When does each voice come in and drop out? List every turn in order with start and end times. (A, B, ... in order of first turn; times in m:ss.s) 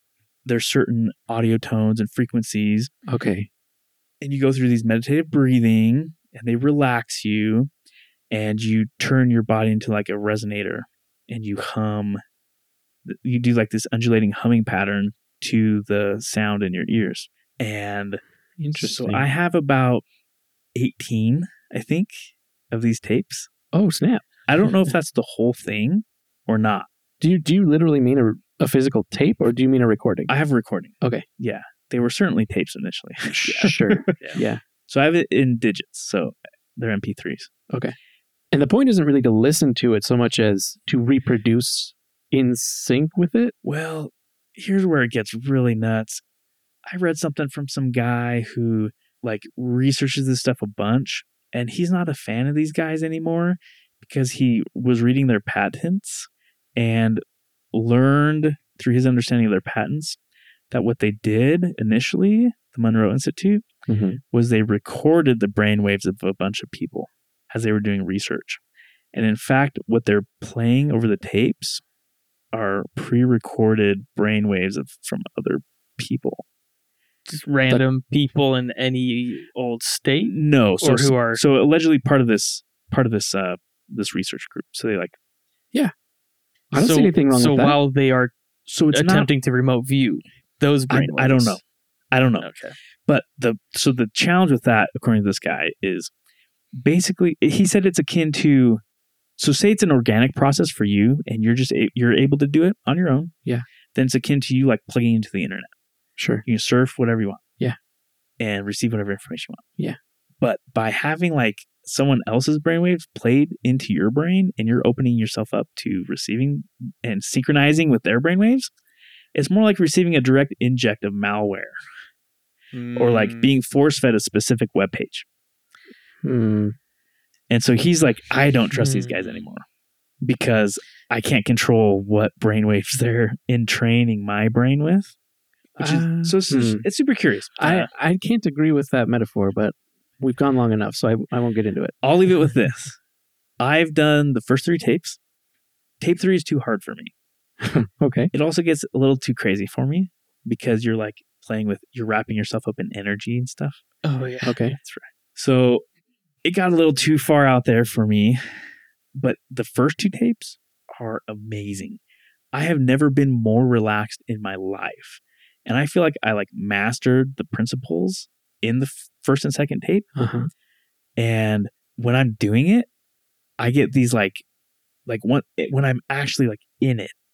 0:00.4-0:02.9 A
0:03.1-0:03.5 B
0:04.2-0:07.7 A
0:08.3-0:12.2 A
0:13.0-0:18.2 A
0:18.6-0:19.2 B
0:18.8-0:20.0 A
0:20.7-0:23.5 A
0:23.7-0:24.2 B
0:24.5-0:26.9 A
0:27.2-0:30.3 B
0:30.3-0:37.5 A
0:33.4-0:34.6 B
0:34.1-0:34.4 C
0:38.5-0:43.5 B
0:43.6-0:46.2 A
0:46.8-1:00.2 A
1:00.7-1:03.6 A
1:03.9-1:04.2 B
1:04.3-1:08.6 A
1:09.1-1:11.8 A
1:12.5-1:16.4 A
1:17.3-1:21.4 C
1:20.2-1:25.2 A
1:26.7-1:27.8 B
1:26.7-1:28.3 C
1:28.7-1:29.3 A
1:28.9-1:31.6 C
1:30.9-1:32.5 A
1:32.4-1:32.7 C
1:33.1-1:36.1 A
1:36.8-1:38.8 A
1:39.4-1:43.3 A
1:43.9-1:45.7 A
1:46.2-1:46.4 B
1:46.4-1:47.4 A
1:48.4-1:49.6 A
1:50.4-1:58.7 A
1:59.3-2:01.8 A
2:02.7-2:03.5 C
2:03.0-2:05.2 A
2:06.2-2:06.8 B
2:07.5-2:09.6 A
2:08.7-2:09.4 C
2:10.2-2:15.1 A
2:15.8-2:17.9 A
2:15.8-2:16.8 B
2:17.6-2:21.9 B
2:22.0-2:23.0 A
2:23.6-2:25.2 A
2:26.0-2:27.1 A
2:27.6-2:28.3 B
2:28.3-2:33.8 A
2:34.0-2:34.6 C
2:34.4-2:34.8 B
2:34.8-2:35.8 A
2:36.4-2:38.6 A
2:39.1-2:42.0 A
2:42.5-2:50.1 A
2:50.2-2:50.5 B
2:51.2-2:52.9 A
2:53.6-2:54.4 A
2:55.1-2:57.1 A